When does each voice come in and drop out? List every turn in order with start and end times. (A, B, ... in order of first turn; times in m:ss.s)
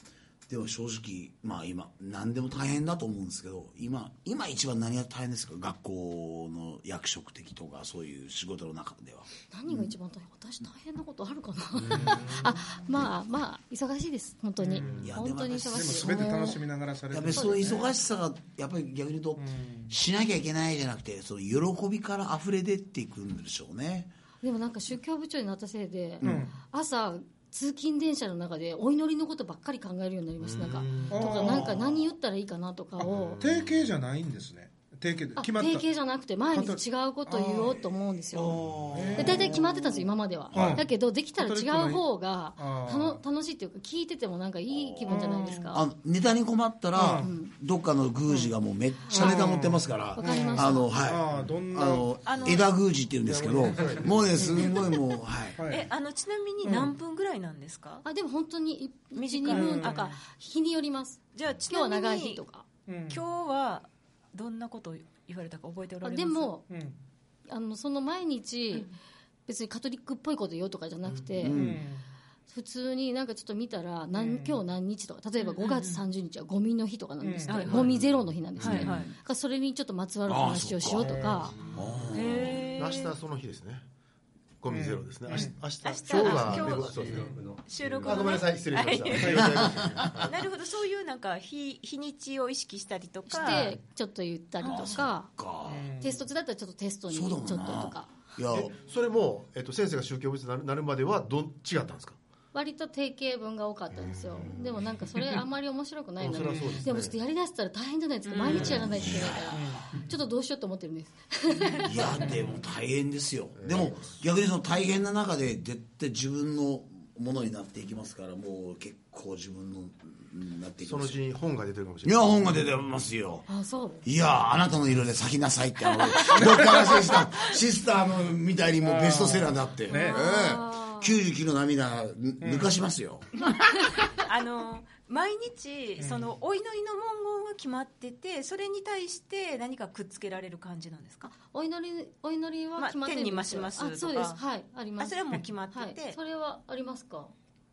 0:00.5-0:09.9 A
0:09.5-0:16.6 B
0:11.9-0:12.4 C
0:14.6-0:14.9 D
0:14.8-0:15.1 C
0:14.9-0:24.1 A
0:15.7-0:17.8 D
0:17.3-0:17.7 B
0:19.4-0:19.9 D
0:24.4-0:33.4 B
0:26.2-0:26.5 D
0:30.4-0:31.9 C
0:31.1-0:31.9 D
0:33.0-0:35.8 D
0:33.1-0:33.9 C
0:35.4-0:38.6 B
0:36.5-0:37.8 D
0:38.5-0:39.4 C
0:38.9-0:39.8 D
0:39.2-0:45.8 B
0:40.5-0:40.8 C
0:40.5-0:40.8 D
0:41.3-0:42.0 D
0:42.6-0:43.2 D
0:44.7-0:55.6 A
0:45.1-0:45.8 D
0:46.9-0:47.3 D
0:47.2-0:47.5 B
0:49.1-0:49.4 B
0:49.1-0:52.2 D
0:50.2-0:50.9 B
0:52.2-0:52.7 E
0:53.2-0:54.3 C
0:54.5-0:54.7 D
0:55.6-0:55.9 D
0:55.7-0:58.0 E
0:56.6-0:56.9 D
0:58.0-1:02.6 B
0:59.2-1:00.2 E
0:59.5-1:00.0 D
1:01.3-1:02.4 E
1:02.9-1:03.2 D
1:03.1-1:06.5 E
1:06.0-1:06.6 B
1:06.7-1:07.0 D
1:07.5-1:08.9 B
1:08.7-1:09.0 E
1:09.5-1:11.6 B
1:11.4-1:11.8 A
1:11.4-1:12.0 D
1:12.5-1:21.6 B
1:14.1-1:14.6 D
1:15.4-1:16.0 E
1:17.2-1:17.9 D
1:17.5-1:17.9 E
1:18.6-1:19.1 E
1:18.6-1:19.1 A
1:20.2-1:21.1 A
1:21.0-1:21.5 D
1:21.7-1:22.6 A
1:21.7-1:22.1 C
1:22.1-1:23.1 E
1:22.8-1:23.8 C
1:24.6-1:30.4 C
1:24.7-1:25.6 D
1:25.3-1:33.8 E
1:26.2-1:27.3 D
1:29.1-1:29.5 D
1:29.3-1:30.3 A
1:33.3-1:35.3 B
1:34.6-1:36.0 A
1:34.6-1:34.9 E
1:35.7-1:36.2 D
1:36.0-1:38.1 B
1:37.1-1:38.7 A
1:38.5-1:42.2 C
1:42.5-1:52.2 B
1:46.2-1:47.2 C
1:46.3-1:46.8 D
1:48.3-1:48.9 E
1:48.5-1:49.5 A
1:48.5-1:49.3 C
1:49.5-1:49.9 D
1:51.8-2:01.2 A
1:52.2-1:52.5 D
1:53.6-1:54.1 C
2:00.8-2:02.6 C
2:02.0-2:03.5 A
2:03.5-2:04.0 B
2:04.0-2:13.4 A
2:06.3-2:06.8 D
2:08.8-2:10.2 D
2:09.9-2:11.2 B
2:12.4-2:12.7 D
2:14.1-2:21.3 E
2:16.0-2:16.3 D
2:21.3-2:27.3 B
2:22.8-2:24.4 E
2:25.0-2:26.2 E